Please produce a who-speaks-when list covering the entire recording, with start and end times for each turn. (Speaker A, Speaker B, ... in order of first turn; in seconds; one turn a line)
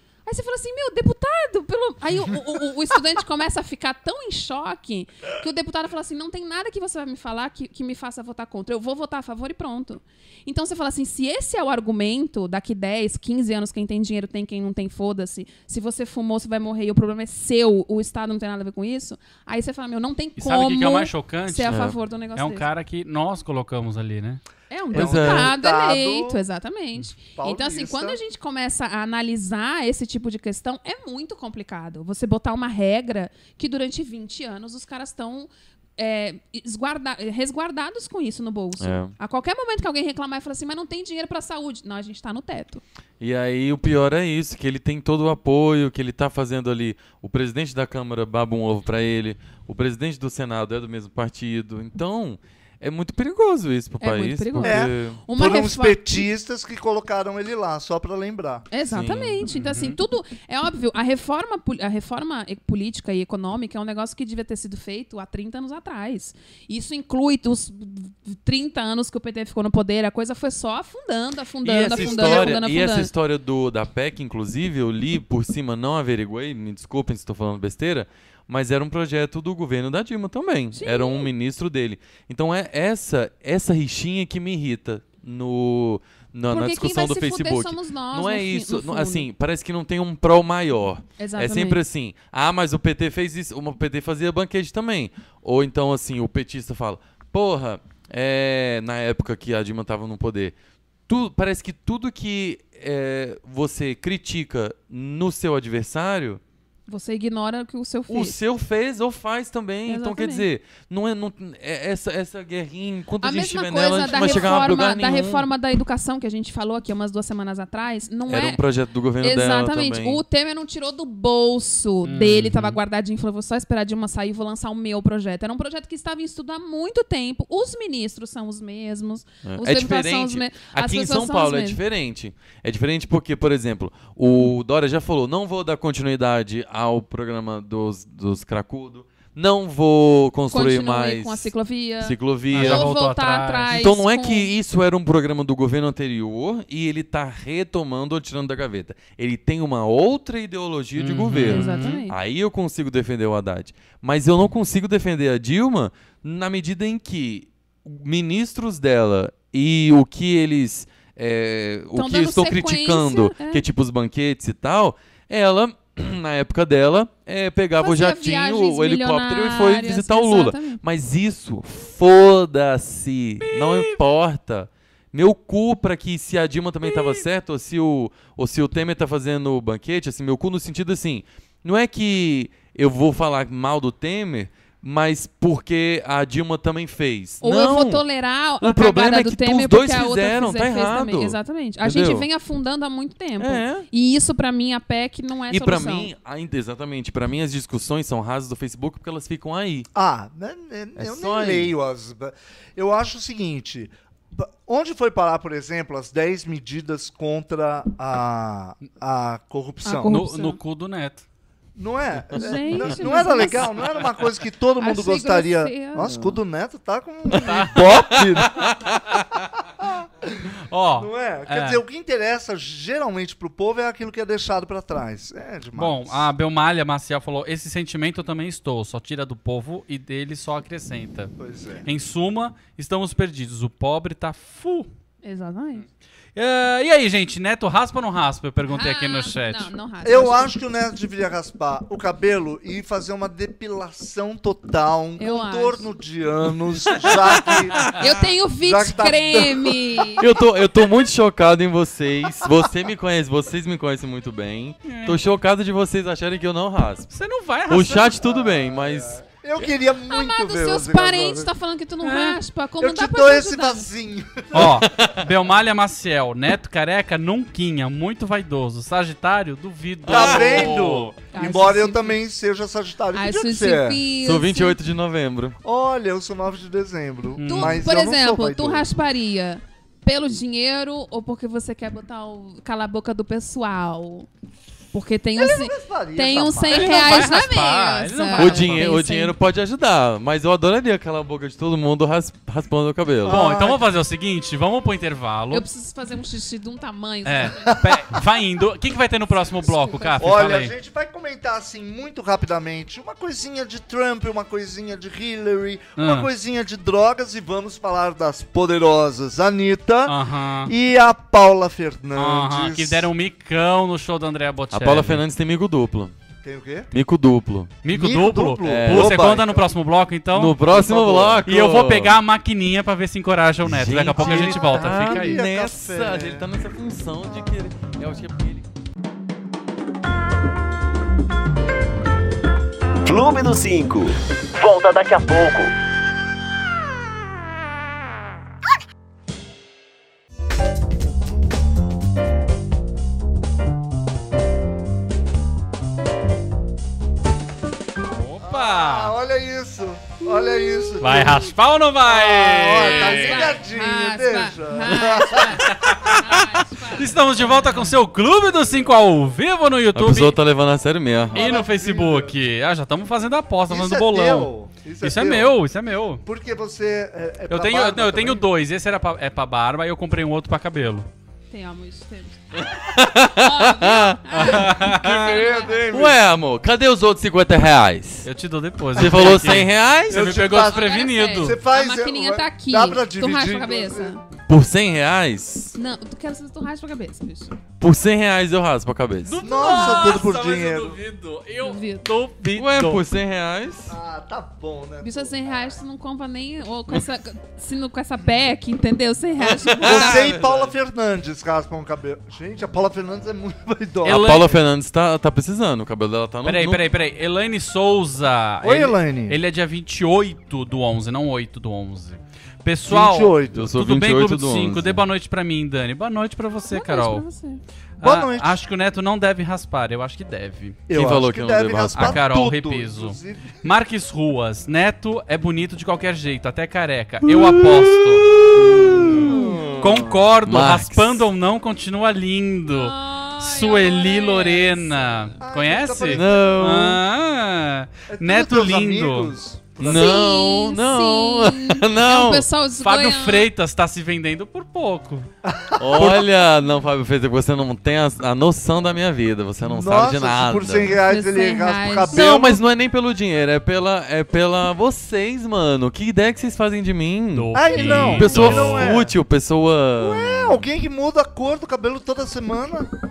Speaker A: 0.3-22.7
Speaker B: 20.4-24.4
Speaker C: 21.7-22.0
Speaker A: 24.7-42.8
Speaker D: 24.9-26.4
Speaker C: 24.9-25.5
Speaker D: 27.4-28.2
Speaker C: 38.8-39.1
Speaker C: 43.2-55.2
Speaker A: 54.0-56.3
Speaker D: 54.6-58.7
Speaker A: 58.7-73.1
Speaker C: 58.9-59.4
Speaker B: 59.5-60.0
Speaker C: 71.6-100.5
Speaker A: 80.7-81.3
Speaker A: 86.5-89.3
Speaker A: 91.2-91.8
Speaker C: 101.1-106.4
Speaker A: 106.9-108.4
Speaker C: 108.1-115.5
Speaker A: 109.9-110.5
Speaker A: 113.2-118.6
Speaker B: 114.1-114.7
Speaker C: 118.3-120.2
Speaker A: 119.2-131.8
Speaker B: 122.0-122.8
Speaker C: 129.4-141.5
Speaker A: 140.5-144.5
Speaker C: 142.0-142.9
Speaker B: 142.5-143.7
Speaker C: 143.7-188.0
Speaker B: 151.0-151.9
Speaker A: 151.5-152.2
Speaker A: 161.9-163.7
Speaker A: 167.8-170.8
Speaker B: 173.4-174.0
Speaker B: 176.8-177.2
Speaker A: 187.4-196.1
Speaker C: 188.6-192.3
Speaker C: 193.4-193.9
Speaker C: 195.5-199.9
Speaker D: 199.9-210.2
Speaker C: 201.0-201.7
Speaker A: 209.8-210.6
Speaker B: 210.1-211.2
Speaker D: 211.8-219.0
Speaker A: 212.4-213.7
Speaker A: 214.8-216.3
Speaker B: 217.4-217.9
Speaker C: 218.2-218.5
Speaker D: 219.8-226.3
Speaker B: 220.7-221.8
Speaker B: 225.8-231.3
Speaker D: 231.4-231.9
Speaker B: 231.9-234.9
Speaker A: 235.2-235.8
Speaker B: 236.4-239.7
Speaker A: 238.7-240.5
Speaker D: 240.0-250.2
Speaker A: 245.2-245.9
Speaker B: 247.5-247.9
Speaker A: 248.0-250.3
Speaker C: 250.2-257.1
Speaker B: 254.9-255.2
Speaker B: 257.1-258.2
Speaker C: 257.7-259.2
Speaker D: 258.2-261.5
Speaker A: 260.1-263.9
Speaker B: 262.0-262.4
Speaker D: 262.8-264.9
Speaker B: 264.5-271.1
Speaker C: 264.6-265.1
Speaker C: 270.1-270.8
Speaker D: 270.1-274.0
Speaker A: 271.3-272.2
Speaker A: 273.1-274.8
Speaker C: 274.2-275.6
Speaker D: 275.6-278.9
Speaker B: 277.4-277.8
Speaker A: 277.4-284.3
Speaker A: 284.9-289.4
Speaker D: 285.4-287.4
Speaker B: 286.7-288.9
Speaker C: 288.4-293.4
Speaker D: 293.2-293.9
Speaker B: 293.3-295.6
Speaker A: 295.5-297.8
Speaker B: 297.2-300.7
Speaker D: 297.7-298.2
Speaker A: 299.6-300.4
Speaker D: 300.2-313.1
Speaker B: 306.0-306.3
Speaker B: 310.1-310.7
Speaker B: 312.1-315.2
Speaker C: 314.7-316.1
Speaker D: 316.4-316.9
Speaker C: 316.9-317.7
Speaker B: 317.8-320.6
Speaker D: 317.9-319.7
Speaker C: 318.6-319.3
Speaker C: 320.3-322.1
Speaker D: 320.7-321.5
Speaker B: 321.4-325.4
Speaker C: 323.6-328.7
Speaker D: 324.1-326.5
Speaker E: 333.1-335.7
Speaker B: 348.1-349.1
Speaker D: 348.4-351.5
Speaker A: 350.2-350.9
Speaker B: 351.0-353.6
Speaker D: 352.0-355.9
Speaker A: 352.8-357.1
Speaker B: 355.6-360.4
Speaker C: 359.9-361.6
Speaker D: 361.3-362.4
Speaker B: 361.3-366.2
Speaker D: 363.7-365.6
Speaker D: 366.2-368.4
Speaker B: 367.5-371.1
Speaker A: 371.5-375.8
Speaker C: 372.6-374.8
Speaker B: 374.3-375.5
Speaker D: 374.8-376.2
Speaker C: 375.9-378.3
Speaker B: 378.2-381.6
Speaker C: 378.9-380.3
Speaker D: 379.0-379.5
Speaker D: 380.1-384.2
Speaker A: 380.6-384.2
Speaker C: 384.5-385.8
Speaker A: 385.8-387.6
Speaker C: 387.8-389.4
Speaker B: 389.3-393.1
Speaker D: 389.4-391.0
Speaker A: 389.6-390.2
Speaker A: 391.6-392.1
Speaker C: 392.4-394.0
Speaker D: 393.9-395.8
Speaker A: 395.0-400.3
Speaker C: 399.4-400.8
Speaker D: 399.8-404.6
Speaker B: 404.0-404.5
Speaker C: 404.1-406.8
Speaker B: 406.4-417.2
Speaker D: 408.6-409.4
Speaker D: 412.9-413.8
Speaker C: 413.5-415.0
Speaker A: 416.7-417.6
Speaker D: 418.0-418.6
Speaker B: 418.0-420.8
Speaker D: 420.9-423.6
Speaker C: 420.9-422.2
Speaker B: 421.9-428.3
Speaker C: 427.2-431.2
Speaker D: 429.0-430.0
Speaker B: 429.0-439.9
Speaker A: 432.7-435.3
Speaker D: 435.4-436.4
Speaker C: 436.1-437.0
Speaker D: 438.1-440.0
Speaker C: 439.8-442.5
Speaker A: 439.8-443.5
Speaker B: 442.8-445.3
Speaker D: 445.4-446.3
Speaker C: 445.8-451.0
Speaker D: 449.6-452.6
Speaker A: 451.1-452.3
Speaker C: 452.1-460.6
Speaker B: 457.3-459.0
Speaker D: 457.5-459.2
Speaker D: 460.0-462.9